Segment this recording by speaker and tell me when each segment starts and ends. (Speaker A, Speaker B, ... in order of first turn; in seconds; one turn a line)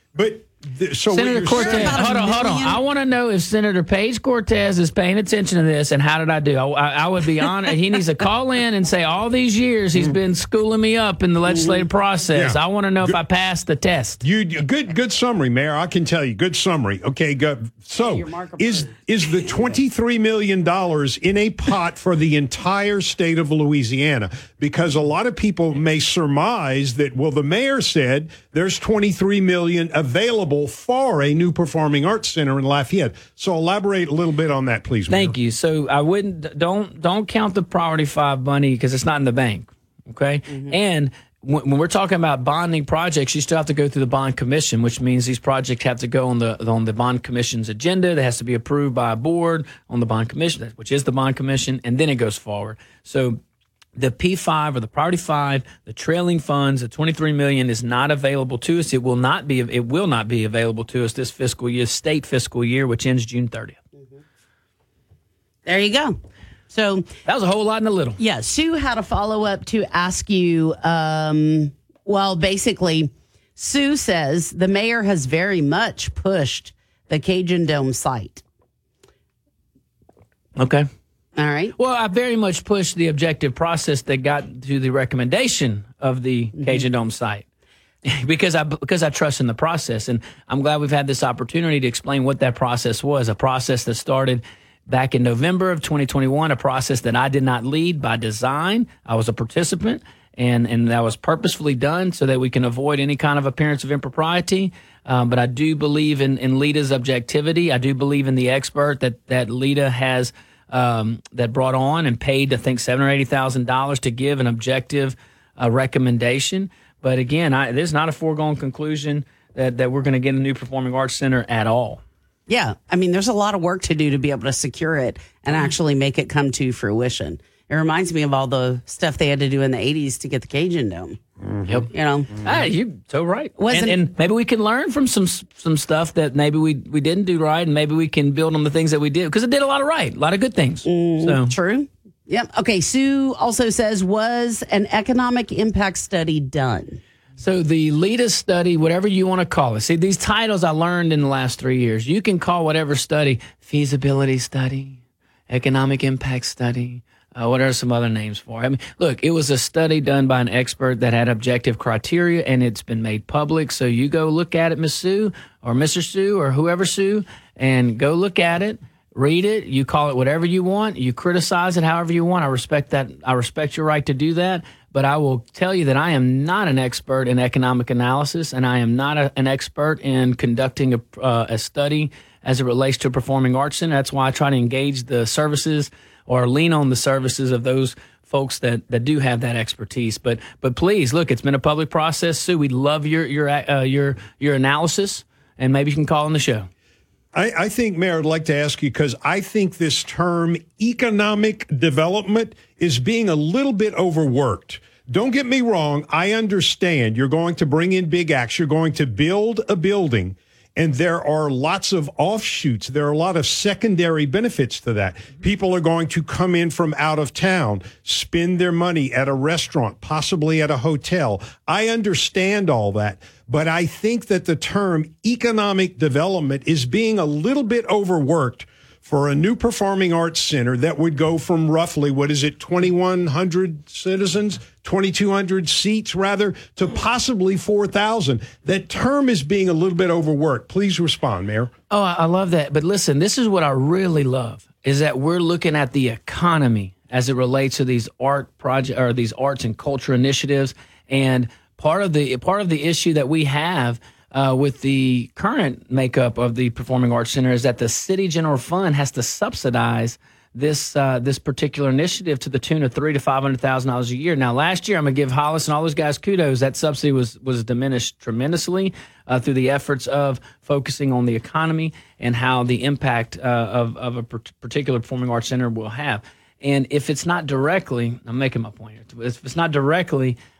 Speaker A: 0.1-2.4
Speaker B: 1.1-14.2
Speaker C: 1.4-2.8
Speaker C: 11.4-11.9
Speaker A: 12.3-13.2
Speaker A: 14.2-35.3
Speaker C: 18.0-18.9
Speaker B: 35.1-53.4
Speaker C: 40.5-40.7
Speaker B: 54.0-63.8
Speaker C: 65.7-66.2
Speaker C: 66.7-67.1
Speaker B: 67.2-68.2
Speaker C: 68.2-78.4
Speaker B: 80.5-80.9
Speaker C: 81.3-81.7
Speaker B: 81.8-87.4
Speaker C: 86.5-86.8
Speaker B: 88.0-122.0
Speaker C: 122.5-131.2
Speaker A: 131.4-131.9
Speaker C: 131.9-132.3
Speaker B: 132.4-141.5
Speaker C: 133.6-134.0
Speaker C: 140.8-147.0
Speaker B: 147.4-196.7
Speaker A: 197.3-241.7
Speaker B: 241.9-280.4